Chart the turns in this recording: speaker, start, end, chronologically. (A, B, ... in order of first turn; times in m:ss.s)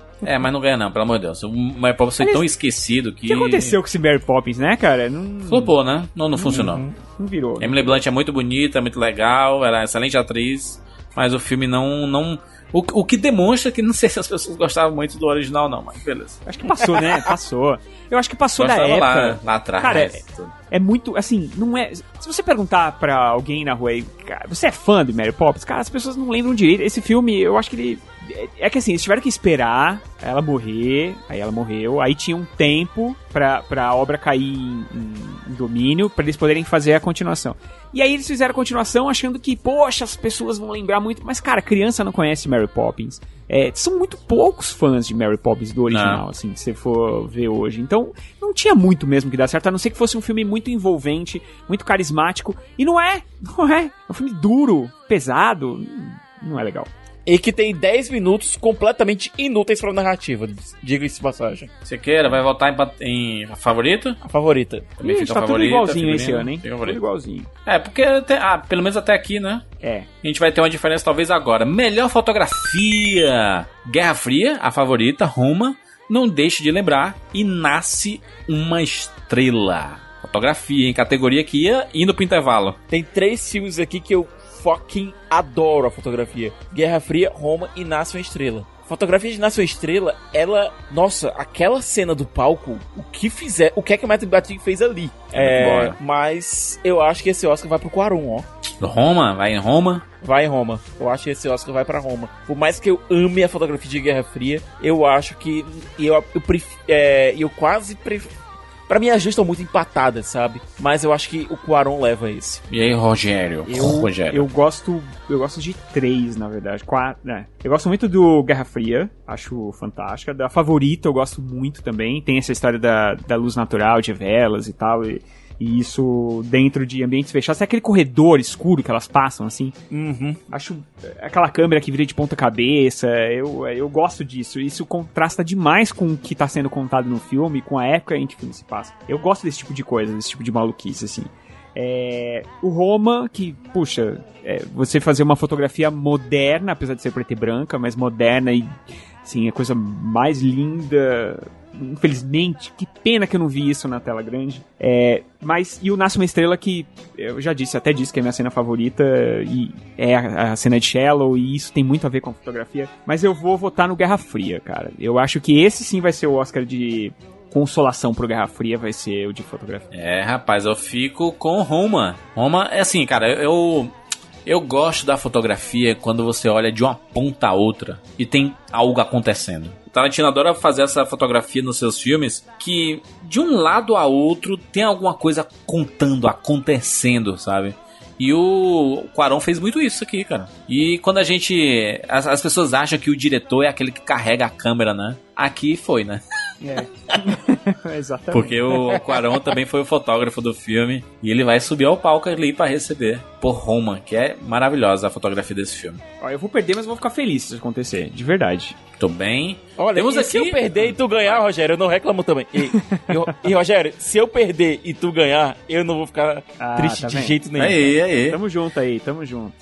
0:00.2-0:03.8 A
0:02.2-0:02.4 B
0:03.3-0:05.7 B
0:05.5-0:06.8 A
0:06.4-0:08.0 B
0:06.5-0:06.9 C
0:07.6-0:16.4 A
0:16.5-0:56.9 B
0:18.6-0:20.5 A
0:45.9-0:46.2 A
0:57.3-1:01.7 C
1:01.8-1:04.2 A
1:04.2-1:04.9 C
1:05.0-1:07.0 A
1:05.0-1:07.5 B
1:07.7-1:09.6 A
1:09.8-1:10.1 B
1:10.2-1:22.8 A
1:22.9-1:38.5 C
1:35.3-1:36.0 A
1:38.8-1:40.0 A
1:40.2-1:48.4 C
1:48.9-1:52.6 C
1:52.7-1:54.5 A
1:53.7-2:09.8 B
2:09.9-2:10.4 C
2:10.5-2:49.9 B
2:49.9-2:53.9 A
2:54.5-3:16.2 A
3:16.6-3:18.7 B
3:18.3-3:26.0 A
3:26.2-3:28.8 B
3:29.0-3:31.4 A
3:29.8-3:38.0 C
3:32.7-3:33.1 B
3:36.6-3:37.4 B
3:37.6-3:38.4 A
3:38.3-3:39.5 B